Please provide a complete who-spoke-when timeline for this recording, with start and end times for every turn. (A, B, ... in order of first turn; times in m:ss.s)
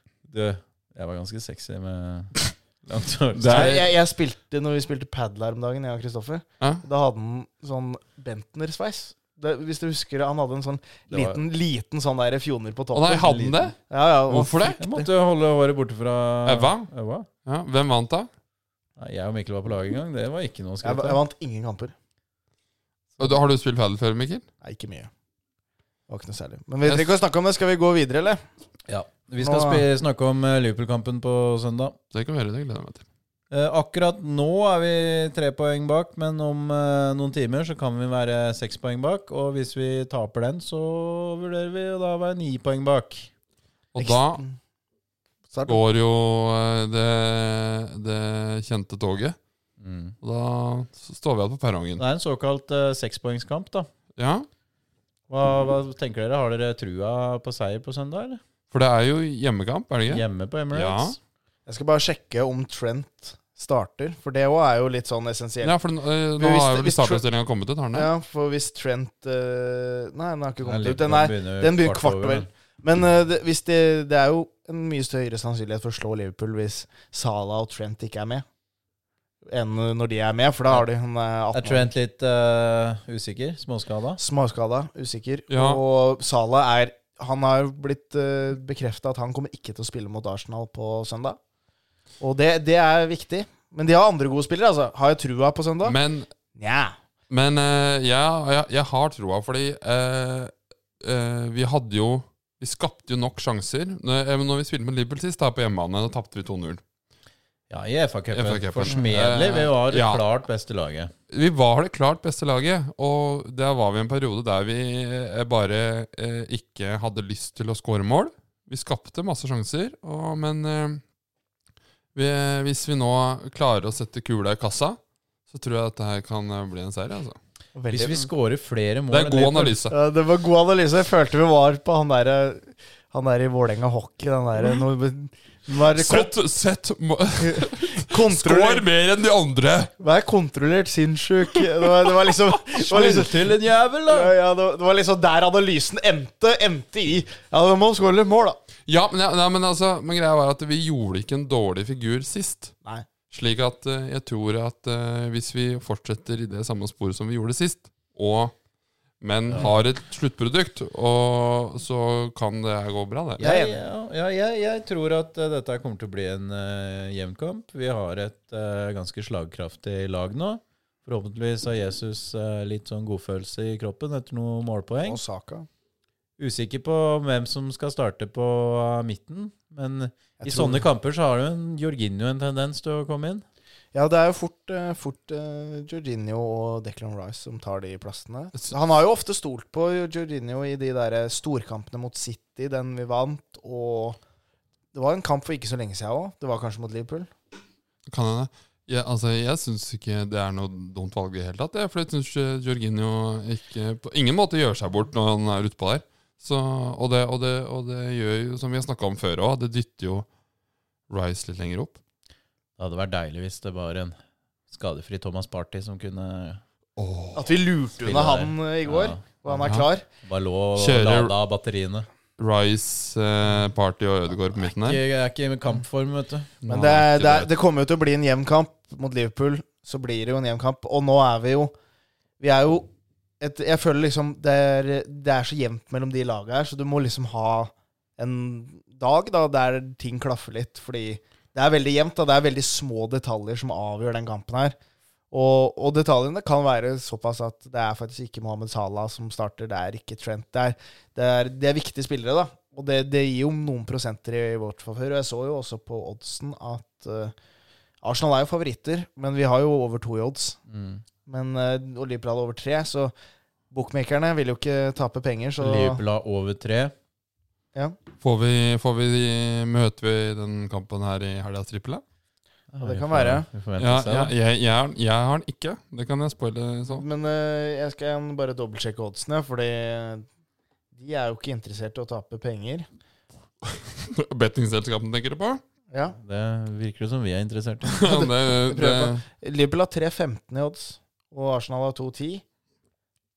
0:00.3-0:03.8 A
0:03.3-0:03.9 B
0:03.5-0:15.1 C
0:11.1-0:11.4 A
0:12.9-0:13.8 B
0:14.3-0:14.8 B
0:14.8-0:17.3 A
0:16.4-0:16.9 B
0:17.4-0:18.3 B
0:19.0-0:21.2 A
0:20.8-0:21.9 C
0:23.2-0:24.4 B
0:24.6-0:25.1 C
0:26.1-0:28.4 C
0:26.8-0:27.1 B
0:28.9-0:32.0 A
0:29.4-0:29.8 C
0:32.1-0:33.0 B
0:33.5-0:43.3 A
0:43.9-0:44.4 B
0:44.0-0:44.6 C
0:45.5-0:45.8 C
0:45.7-0:49.4 B
0:49.8-0:50.2 A
0:50.2-0:52.0 B
0:52.0-0:53.9 A
0:54.2-0:54.5 B
0:55.3-0:58.4 A
0:58.7-1:01.2 B
1:00.1-1:01.2 A
1:01.7-1:05.7 C
1:05.6-1:08.1 B
1:06.4-1:07.2 C
1:07.9-1:18.4 C
1:10.6-1:12.5 A
1:19.4-1:21.9 C
1:21.5-1:24.2 A
1:24.2-1:31.4 C
1:25.5-1:25.8 B
1:32.2-1:36.0 C
1:35.8-1:36.3 B
1:36.6-1:37.0 C
1:37.3-1:46.8 B
1:47.7-1:51.1 A
1:48.3-1:50.2 B
1:51.3-2:01.0 B
2:02.1-2:05.0 B
2:05.5-2:07.4 B
2:07.7-2:08.3 C
2:07.9-2:09.8 A
2:09.1-2:10.0 B
2:09.9-2:16.3 C
2:15.9-2:19.9 B
2:17.4-2:18.9 C
2:20.0-2:23.4 C
2:22.8-2:24.3 A
2:24.1-2:28.6 C
2:28.9-2:32.7 B
2:33.3-2:38.5 B
2:39.2-2:43.4 B
2:43.4-2:43.8 C
2:43.4-2:55.2 A
2:55.0-2:55.7 C
2:56.4-3:03.4 A
3:00.4-3:00.8 C
3:03.9-3:14.2 C
3:14.9-3:17.3 C
3:18.1-3:30.3 B
3:31.1-3:32.0 B
3:32.8-3:34.2 A
3:34.7-3:36.6 A
3:37.0-3:37.5 B
3:37.3-3:40.0 C
3:38.0-3:39.7 A
3:39.6-3:39.9 B
3:40.2-3:42.1 A
3:40.8-3:41.3 B
3:42.4-3:45.0 B
3:44.5-3:46.5 A
3:46.6-3:47.5 B
3:46.7-3:51.7 C
3:52.4-4:04.8 C
4:05.3-4:17.3 C
4:18.0-4:20.6 C
4:20.7-4:21.0 A
4:21.3-4:23.1 C
4:23.7-4:26.0 C
4:25.6-4:26.9 A
4:28.2-4:32.0 B
4:32.7-4:34.3 A
4:32.8-4:33.5 C
4:33.8-4:37.0 B
4:36.9-4:40.3 C
4:40.9-4:42.9 C
4:43.6-4:45.6 B
4:45.9-4:46.2 C
4:46.2-4:48.0 A
4:47.8-4:49.2 B
4:48.0-4:52.4 C